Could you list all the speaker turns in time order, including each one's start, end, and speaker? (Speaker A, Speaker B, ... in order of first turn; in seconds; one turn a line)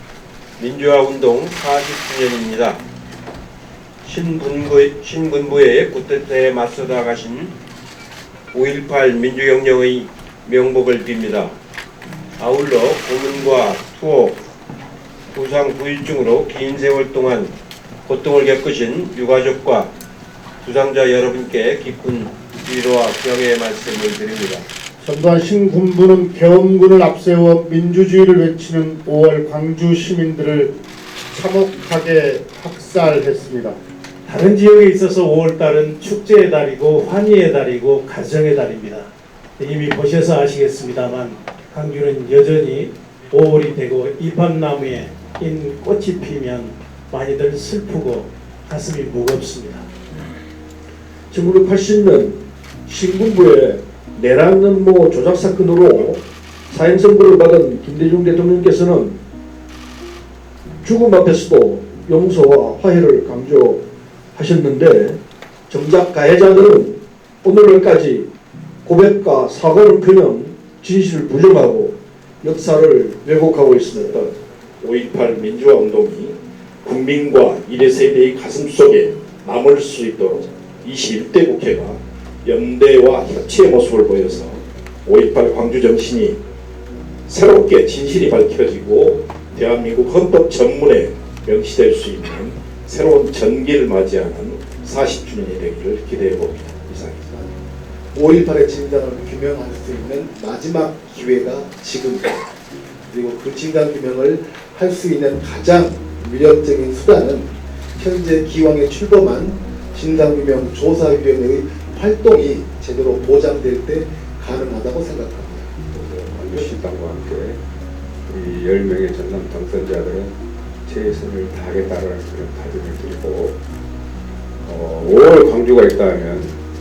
Speaker A: 0.6-2.8
Speaker A: 4.0-7.5
Speaker A: 8.5-11.5
Speaker A: 12.4-14.4
Speaker A: 15.3-17.5
Speaker A: 18.1-19.9
Speaker A: 20.6-24.7
Speaker B: 25.0-30.8
Speaker B: 31.3-33.8
Speaker C: 34.3-49.9
Speaker D: 51.3-59.2
Speaker D: 60.8-63.8
Speaker D: 64.3-68.3
Speaker D: 68.8-74.3
Speaker E: 74.1-86.4
Speaker E: 87.3-97.3
Speaker F: 98.1-102.4
Speaker F: 103.1-115.8
Speaker G: 115.9-117.6
Speaker G: 118.3-123.6
Speaker G: 124.6-126.6